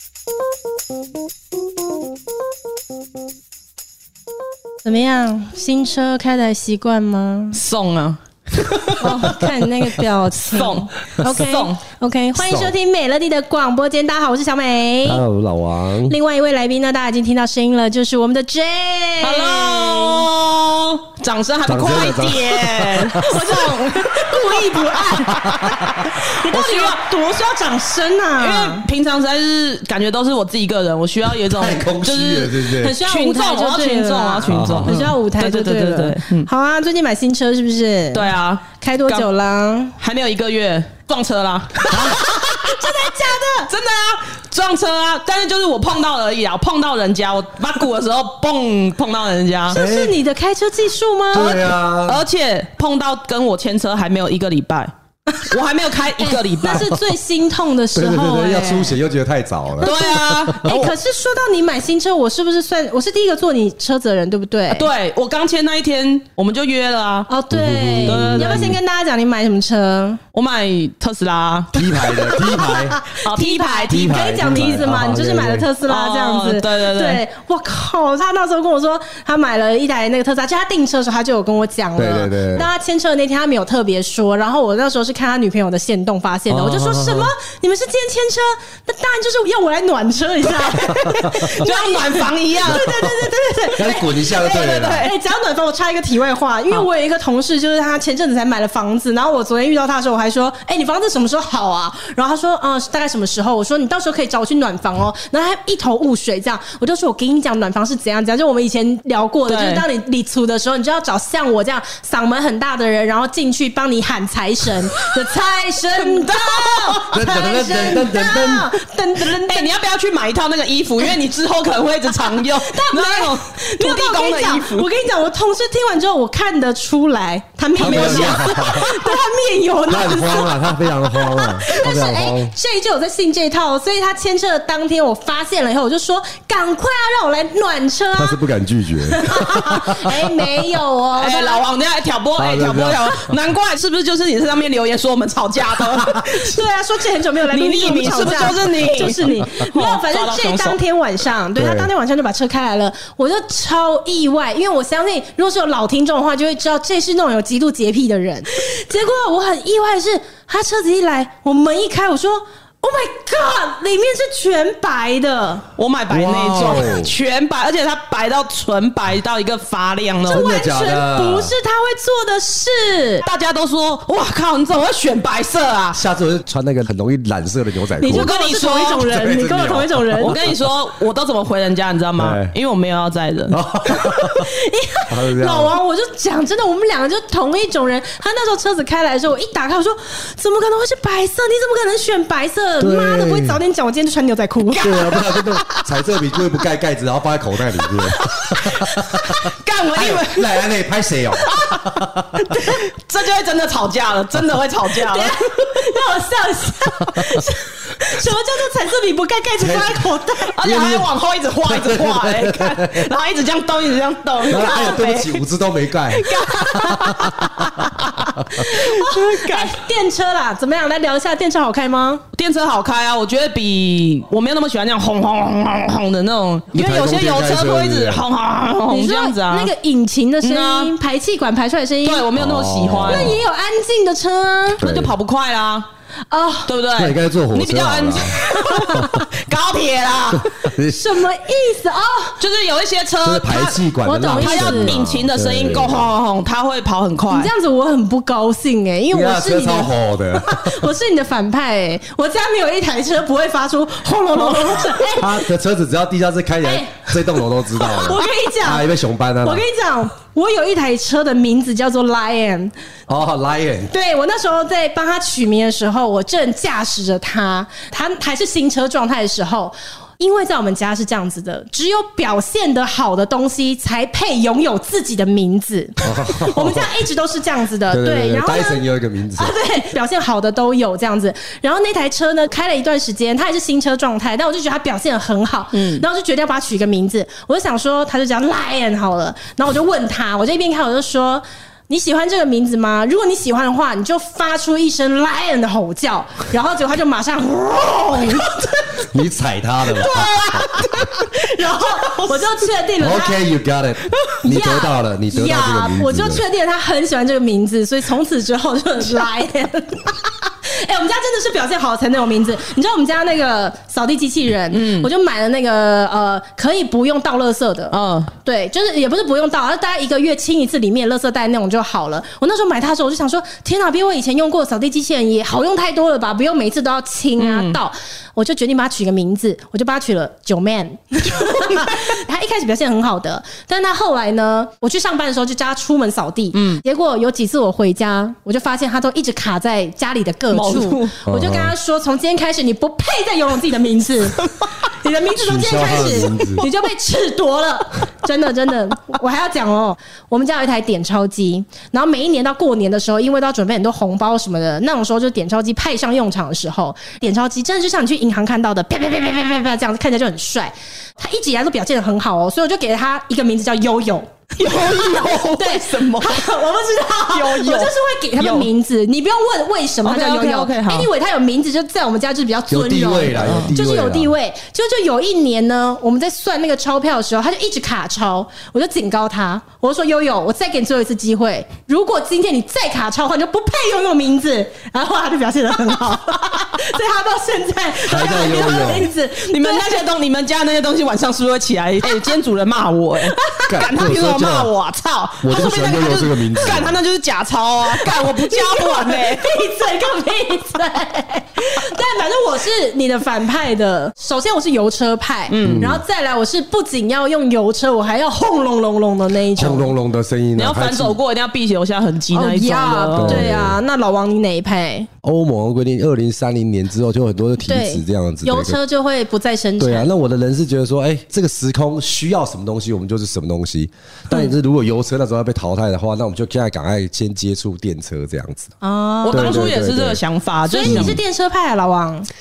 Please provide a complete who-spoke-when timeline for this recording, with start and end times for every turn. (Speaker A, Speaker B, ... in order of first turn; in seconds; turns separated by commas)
Speaker A: 4.8-7.6, Speaker B: 7.5-9.2, Speaker A: 9.0-15.2, Speaker B: 10.4-11.8, Speaker C: 12.4-12.7, Speaker C: 15.0-16.1, Speaker A: 16.1-20.3, Speaker B: 19.2-25.6, Speaker C: 21.6-23.1, Speaker A: 23.2-28.9, Speaker B: 26.4-27.0, Speaker B: 28.4-36.5, Speaker C: 31.4-33.0, Speaker A: 32.8-40.0, Speaker C: 34.5-35.1, Speaker B: 38.1-39.2, Speaker B: 40.0-43.1, Speaker C: 41.9-42.2, Speaker A: 41.9-43.7, Speaker B: 43.7-49.8, Speaker A: 49.7-51.5, Speaker C: 49.7-50.1, Speaker C: 51.3-52.2, Speaker B: 51.3-56.9, Speaker A: 56.2-59.0, Speaker C: 57.9-59.9, Speaker A: 59.8-64.9, Speaker B: 59.8-60.9, Speaker B: 64.7-67.3, Speaker A: 67.3-70.2, Speaker C: 67.5-68.8, Speaker B: 68.0-68.7, Speaker B: 70.3-72.3, Speaker C: 71.7-73.0, Speaker A: 72.1-119.7, Speaker B: 73.1-74.6, Speaker C: 73.9-75.7, Speaker B: 75.8-77.2, Speaker C: 81.9-82.7, Speaker C: 86.5-87.3, Speaker C: 90.9-91.4, Speaker B: 91.3-92.9, Speaker C: 92.6-93.1, Speaker C: 93.7-95.0, Speaker B: 94.4-95.1, Speaker B: 109.5-109.8, Speaker B: 115.9-117.1, Speaker C: 117.1-118.8, Speaker B: 119.5-124.9, Speaker A: 122.2-138.4, Speaker B: 127.8-128.6, Speaker C: 127.8-129.1, Speaker C: 129.9-132.5, Speaker C: 138.2-140.3, Speaker A: 139.1-141.6, Speaker B: 141.2-146.6, Speaker C: 142.4-143.3, Speaker A: 146.3-165.6, Speaker B: 147.5-150.8, Speaker C: 151.6-151.9, Speaker B: 165.8-170.5, Speaker C: 166.1-167.1, Speaker C: 170.2-171.5, Speaker A: 170.3-173.3, Speaker B: 173.2-176.0, Speaker C: 175.9-178.3, Speaker A: 178.0-180.3, Speaker B: 178.1-179.1, Speaker C: 179.0-180.6, Speaker B: 180.2-183.6, Speaker C: 182.2-182.5, Speaker C: 183.5-184.5, Speaker A: 183.9-195.8, Speaker C: 185.1-185.8, Speaker C: 192.8-193.6, Speaker C: 194.8-202.4, Speaker B: 194.8-195.2, Speaker B: 198.2-200.6, Speaker B: 201.4-205.5, Speaker A: 204.9-210.6, Speaker C: 207.1-207.4, Speaker C: 209.6-210.1, Speaker B: 210.5-215.4, Speaker C: 210.6-211.1, Speaker C: 211.6-213.1, Speaker C: 214.5-218.7, Speaker B: 216.1-219.8, Speaker A: 216.3-217.5, Speaker A: 218.5-222.2, Speaker B: 222.3-229.7, Speaker C: 226.7-228.2, Speaker A: 228.9-232.3, Speaker B: 230.4-230.9, Speaker B: 232.0-233.3, Speaker C: 232.3-233.3, Speaker A: 233.0-234.8, Speaker C: 234.8-235.2, Speaker B: 234.8-235.9, Speaker A: 236.3-236.7, Speaker B: 236.7-240.5, Speaker C: 236.9-238.4, Speaker A: 238.5-239.1, Speaker C: 238.9-239.2, Speaker C: 240.3-241.0, Speaker A: 240.9-242.4, Speaker B: 242.4-247.5, Speaker C: 243.2-246.1, Speaker A: 244.0-245.0, Speaker A: 247.3-255.4, Speaker C: 249.1-250.9, Speaker C: 255.1-259.6, Speaker A: 256.6-258.9, Speaker A: 259.4-262.7, Speaker C: 263.1-263.9, Speaker A: 263.9-278.8, Speaker C: 276.0-276.9, Speaker C: 277.9-279.5, Speaker A: 279.4-298.9, Speaker B: 285.7-286.0, Speaker C: 299.1-300.7, Speaker A: 300.0-303.4, Speaker B: 300.0-300.7, Speaker C: 303.0-306.4, Speaker A: 304.4-390.0, Speaker B: 314.7-315.1, Speaker B: 317.9-318.3, Speaker B: 327.4-327.8, Speaker B: 336.5-336.8, Speaker B: 340.5-341.1, Speaker C: 341.2-341.7, Speaker C: 345.4-346.6, Speaker B: 364.6-366.5, Speaker B: 367.3-368.7, Speaker B: 370.0-371.1, Speaker C: 372.7-374.3, Speaker B: 373.4-373.7, Speaker C: 388.1-389.1, Speaker B: 389.3-399.6, Speaker A: 393.4-393.7, Speaker C: 393.7-394.7, Speaker C: 395.4-397.0, Speaker A: 397.9-409.9, Speaker B: 405.5-405.9, Speaker C: 405.6-406.0, Speaker C: 409.5-411.2, Speaker B: 410.6-413.5, Speaker A: 412.3-415.1, Speaker C: 413.1-413.8, Speaker C: 415.2-418.8, Speaker A: 417.6-420.1, Speaker C: 419.8-428.7, Speaker A: 428.8-429.7, Speaker B: 429.2-431.2, Speaker C: 429.3-430.2, Speaker A: 430.7-432.3, Speaker C: 430.8-431.2